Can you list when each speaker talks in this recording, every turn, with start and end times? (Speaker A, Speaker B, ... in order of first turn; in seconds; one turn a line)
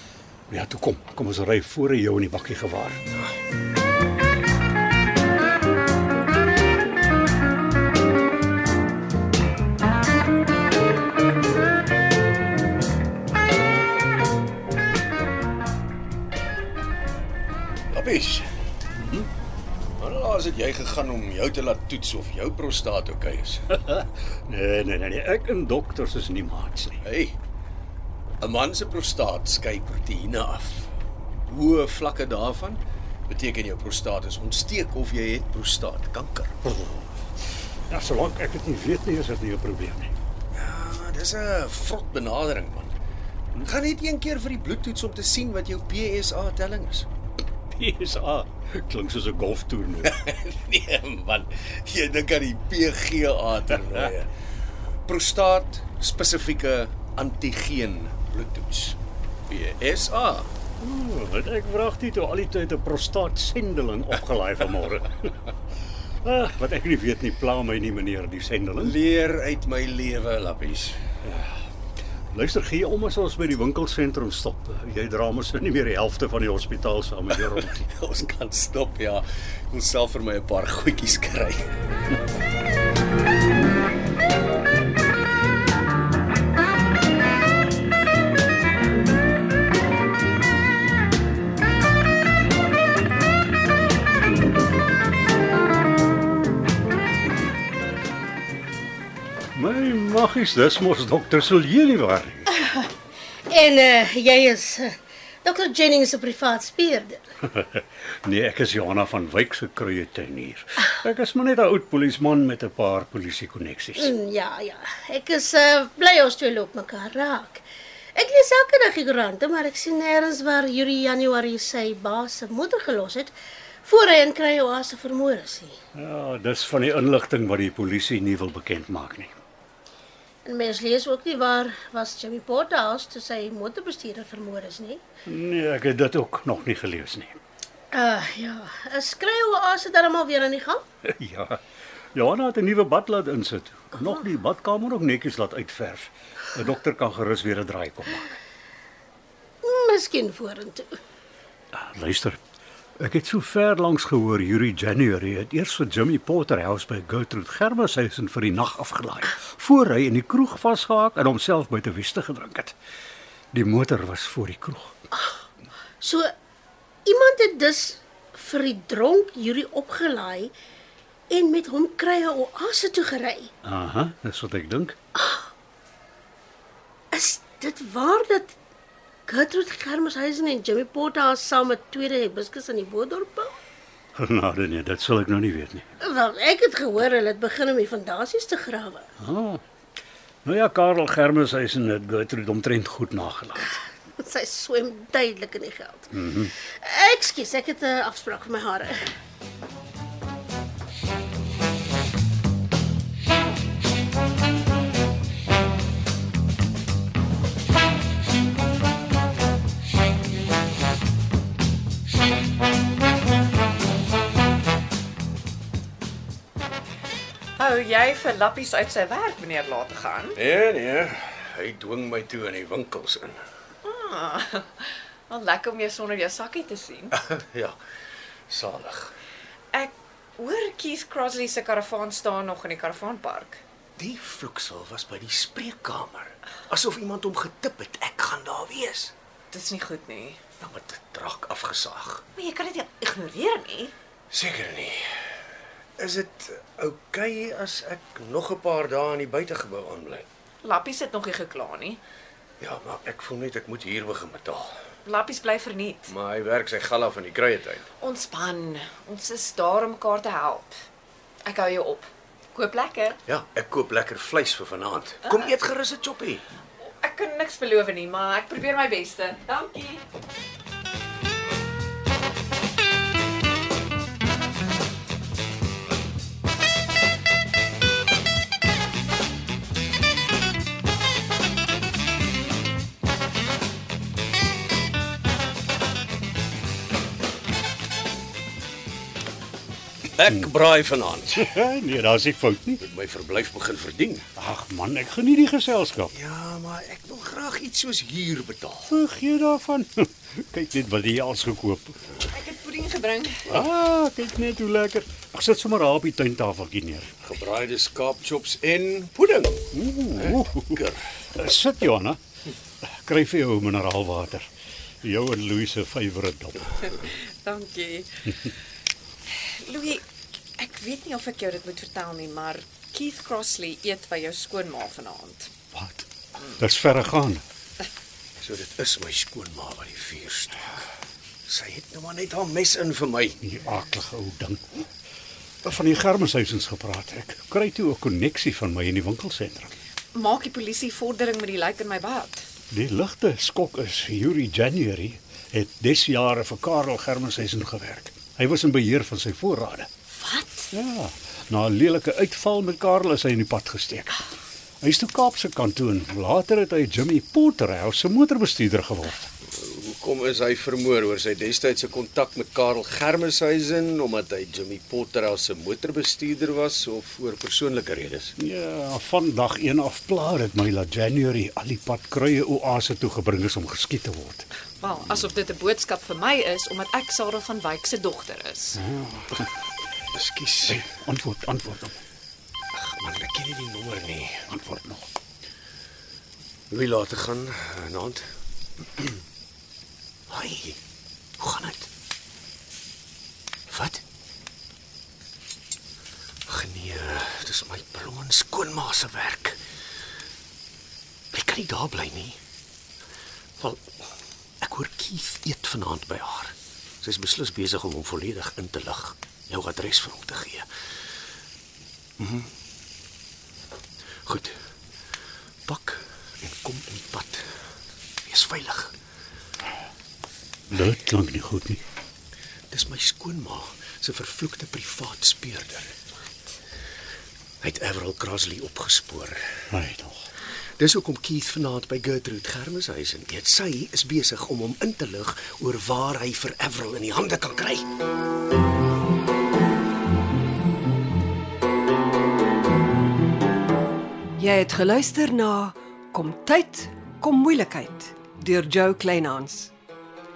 Speaker A: 0.5-3.0
Speaker B: 17.9-18.5
Speaker A: 18.9-19.3
Speaker B: 20.0-23.6
Speaker A: 23.7-27.0
Speaker B: 27.0-27.4
Speaker B: 28.4-30.9
Speaker B: 31.5-36.6
Speaker A: 36.7-37.1
Speaker A: 37.9-40.1
Speaker B: 40.5-42.9
Speaker B: 43.6-47.1
Speaker A: 47.7-50.2
Speaker B: 50.1-54.3
Speaker B: 55.1-59.0
Speaker B: 59.5-60.5
Speaker A: 60.8-65.4
Speaker A: 66.2-69.0
Speaker B: 68.8-71.0
Speaker A: 71.2-71.7
Speaker A: 72.3-77.9
Speaker B: 77.3-81.8
Speaker A: 99.5-102.5
Speaker C: 103.5-107.2
Speaker A: 107.4-114.1
Speaker C: 114.0-117.6
Speaker C: 118.2-123.3
Speaker C: 123.8-125.8
Speaker A: 125.9-129.3
Speaker C: 130.4-135.0
Speaker A: 135.3-137.4
Speaker C: 137.9-140.8
Speaker A: 141.0-141.6
Speaker A: 142.2-148.4
Speaker C: 149.6-150.9
Speaker A: 151.7-152.4
Speaker A: 153.0-162.8
Speaker A: 163.5-165.0
Speaker C: 166.0-166.3
Speaker C: 167.1-170.5
Speaker C: 171.3-173.5
Speaker A: 173.6-175.0
Speaker C: 175.2-175.5
Speaker C: 177.1-178.5
Speaker C: 179.3-183.6
Speaker A: 184.2-185.9
Speaker C: 186.0-189.1
Speaker A: 189.2-189.6
Speaker A: 190.4-193.8
Speaker C: 194.2-196.1
Speaker A: 196.1-196.5
Speaker C: 196.7-199.0
Speaker D: 217.6-220.4
Speaker B: 220.4-223.4
Speaker D: 223.8-227.2
Speaker B: 227.1-227.8
Speaker B: 228.5-229.1
Speaker D: 229.7-233.6
Speaker B: 234.0-239.1
Speaker D: 239.5-240.4
Speaker B: 240.6-242.2
Speaker D: 242.4-243.9
Speaker B: 244.3-245.1
Speaker B: 246.0-250.3
Speaker D: 250.6-252.0
Speaker B: 252.6-254.7
Speaker D: 255.1-256.1
Speaker B: 256.1-257.9
Speaker D: 258.0-260.8
Speaker D: 261.4-263.2
Speaker B: 263.3-266.4
Speaker D: 266.8-270.0
Speaker B: 290.2-291.5
Speaker A: 291.4-292.8
Speaker B: 292.8-294.3
Speaker A: 294.4-296.1
Speaker B: 296.1-298.9
Speaker A: 298.9-302.0
Speaker D: 302.3-303.5
Speaker A: 303.5-307.1
Speaker B: 307.2-311.0
Speaker A: 309.7-310.8
Speaker A: 311.4-312.2
Speaker A: 312.8-314.5
Speaker A: 315.0-316.7
Speaker D: 316.8-318.1
Speaker D: 319.4-320.1
Speaker D: 320.6-325.5
Speaker A: 325.7-327.4
Speaker B: 328.4-330.7
Speaker B: 331.5-333.4
Speaker A: 333.4-334.8
Speaker A: 335.6-339.7
Speaker D: 340.1-342.4
Speaker A: 342.7-349.9
Speaker D: 350.2-350.7
Speaker A: 350.7-354.2
Speaker A: 354.8-359.3
Speaker B: 359.4-368.3
Speaker A: 368.4-374.5
Speaker D: 374.8-378.8
Speaker A: 378.8-379.5
Speaker B: 380.1-380.8
Speaker A: 380.7-382.0
Speaker B: 382.7-384.5
Speaker A: 384.5-385.0
Speaker B: 386.7-388.3
Speaker B: 390.3-390.8
Speaker B: 391.4-391.9
Speaker B: 393.7-394.0
Speaker B: 396.5-399.6
Speaker B: 401.3-402.4
Speaker B: 403.6-404.1
Speaker B: 404.6-410.7
Speaker B: 412.2-412.5
Speaker B: 414.3-414.6
Speaker B: 415.7-417.5
Speaker B: 418.3-418.9
Speaker A: 420.7-421.8
Speaker B: 422.7-425.9
Speaker B: 427.6-429.4
Speaker A: 429.7-430.3
Speaker B: 430.8-437.9
Speaker E: 444.4-449.7